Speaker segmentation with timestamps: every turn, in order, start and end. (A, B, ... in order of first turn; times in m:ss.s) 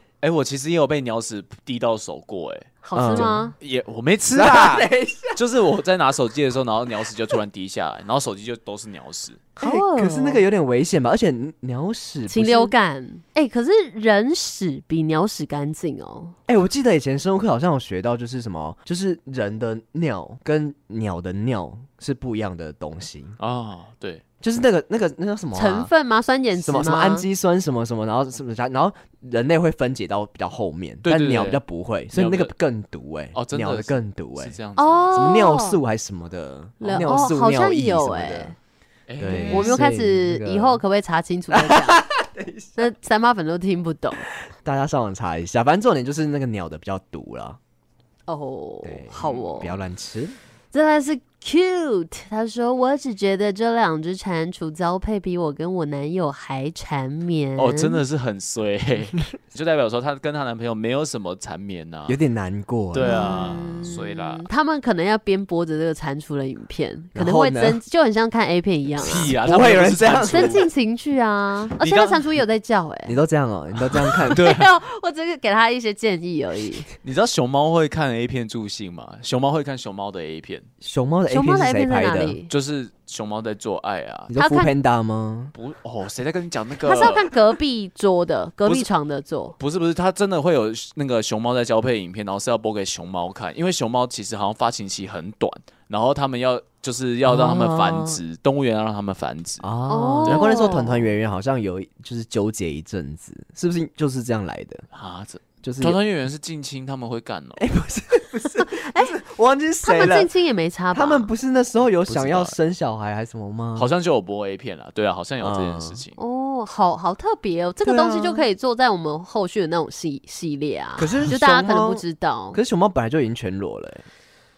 0:00.2-0:09.4 A
0:02.8-0:03.6 B
0:03.0-0:03.5 C
0:04.3-0:05.4 C
0:09.6-0:10.4 B
0:09.6-0:12.7 C
0:12.3-0:16.4 B
0:16.5-0:23.4 C
0:23.4-0:24.2 A
0:24.4-0:25.9 C
0:25.6-0:27.3 B
0:26.5-0:34.6 C
0:31.0-0:31.6 A
0:32.1-0:32.5 A
0:33.3-0:35.1 A
0:34.8-0:35.8 B
0:35.1-0:38.6 C
0:36.8-0:38.6 B
0:39.1-0:39.8 A
0:39.2-0:40.8 C
0:39.5-0:42.0 B
0:41.5-0:42.9 C
0:42.8-0:44.3 B
0:44.6-0:47.6 C
0:48.3-0:49.7 B
0:48.8-0:50.4 C
0:50.7-0:58.0 B
0:57.6-1:02.2 A
1:02.1-1:03.9 C
1:02.9-1:04.5 A
1:03.0-1:09.4 B
1:07.2-1:07.8 C
1:09.0-1:10.7 A
1:09.3-1:10.6 C
1:10.3-1:13.2 B
1:11.8-1:12.3 A
1:13.1-1:14.4 C
1:14.2-1:16.9 B
1:14.3-1:14.7 A
1:17.0-1:20.7 A
1:20.8-1:22.4 C
1:21.3-1:22.5 B
1:22.5-1:24.3 A
1:24.3-1:25.5 C
1:24.4-1:24.7 B
1:25.6-1:27.3 A
1:26.8-1:29.6 B
1:28.6-1:28.9 A
1:29.6-1:39.6 A
1:37.3-1:38.2 C
1:39.6-1:44.9 C
1:39.9-1:41.1 B
1:44.9-1:47.6 A
1:45.6-1:46.0 C
1:47.6-1:50.3 C
1:48.6-1:49.2 B
1:49.8-1:51.3 B
1:50.9-1:53.9 C
1:52.1-1:52.6 A
1:53.8-1:56.2 A
1:55.4-1:56.0 C
1:56.2-2:02.6 B
1:57.8-1:58.4 C
2:01.0-2:04.1 C